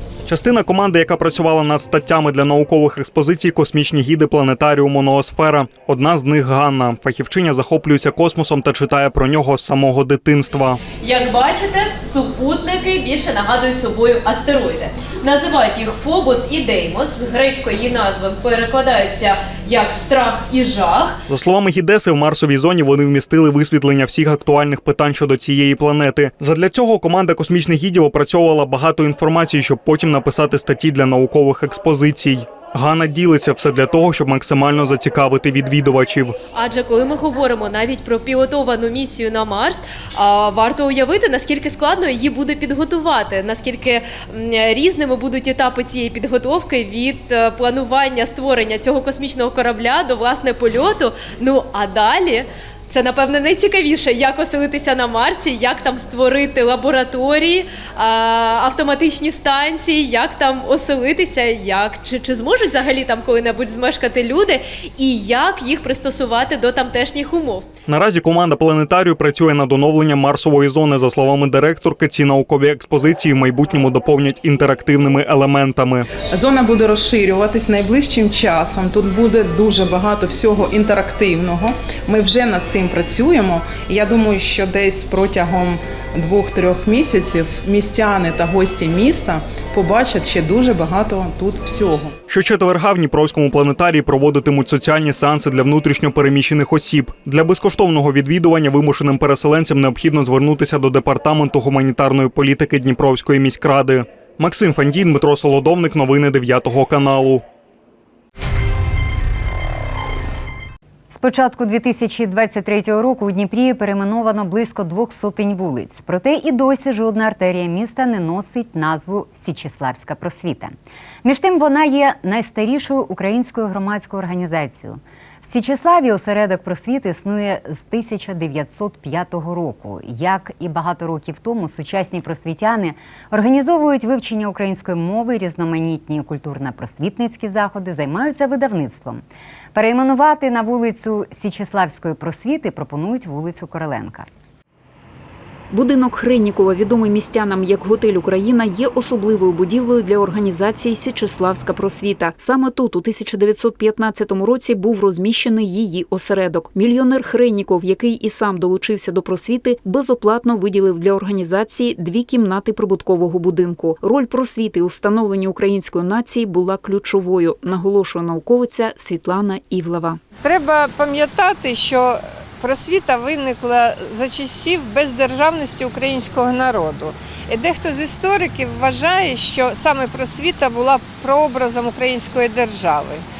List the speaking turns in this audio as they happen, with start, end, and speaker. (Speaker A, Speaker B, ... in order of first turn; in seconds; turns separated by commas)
Speaker A: 0.3-10.8, Speaker B: 11.0-21.2, Speaker A: 21.3-36.4, Speaker B: 36.5-67.7, Speaker A: 67.9-76.1, Speaker C: 76.2-92.2, Speaker A: 92.3-107.4, Speaker D: 111.1-144.3, Speaker E: 145.7-170.2, Speaker F: 170.4-183.2